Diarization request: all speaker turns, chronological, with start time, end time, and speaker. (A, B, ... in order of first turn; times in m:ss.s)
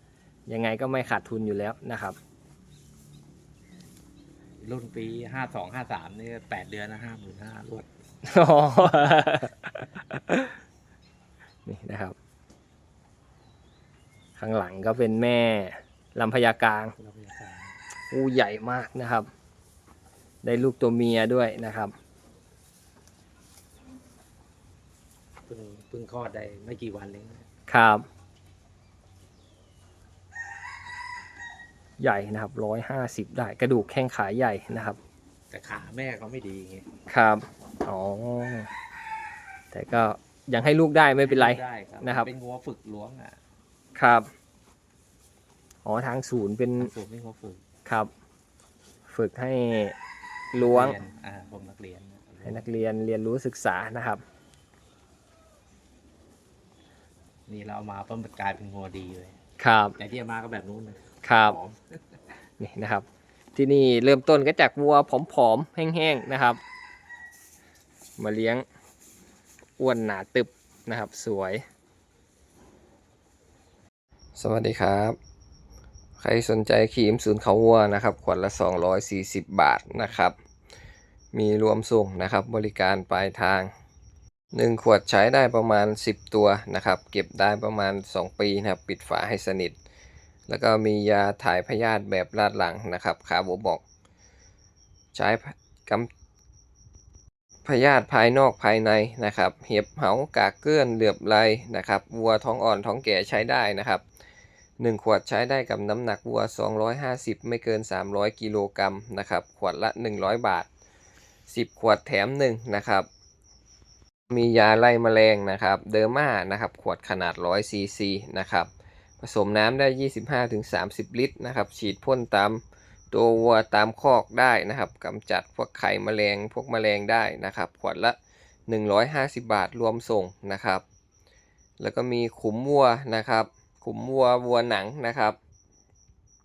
0:00.5-0:02.2 A
0:04.6-0:07.9 B
0:08.2-0:10.5 A
0:11.6-0:12.2 A
0:14.4-0:16.9 A
0:17.0-0:17.8 B
0:18.1-0:19.3 A
0:20.4-0:21.9 A
0:25.5-0:27.4 B
0:27.7-0:28.0 A
0:32.0-0:35.0 A
0:35.5-0:36.9 B
0:37.1-0:38.7 A
0:39.7-0:42.3 A
0:41.2-0:43.4 B
0:44.0-0:44.3 A
0:45.8-0:46.9 A
0:46.8-0:47.6 B
0:49.1-0:49.9 A
0:50.5-0:51.0 A
0:50.5-0:52.7 B
0:52.4-0:54.2 A
0:57.5-0:59.4 B
0:59.6-1:00.0 A
1:00.0-1:02.0 B
1:01.2-1:01.6 A
1:02.6-1:06.6 A
1:08.2-1:08.6 A
1:09.8-1:11.6 A
1:14.4-1:15.2 A
1:16.2-1:20.3 A
1:21.3-1:23.7 A
1:24.5-1:29.8 A
1:30.5-1:33.8 A
1:35.1-1:36.1 A
1:37.6-1:44.0 A
1:44.8-1:50.7 A
1:51.5-1:53.1 A
1:54.3-1:58.7 A
1:59.2-2:10.8 A
2:11.8-2:15.4 A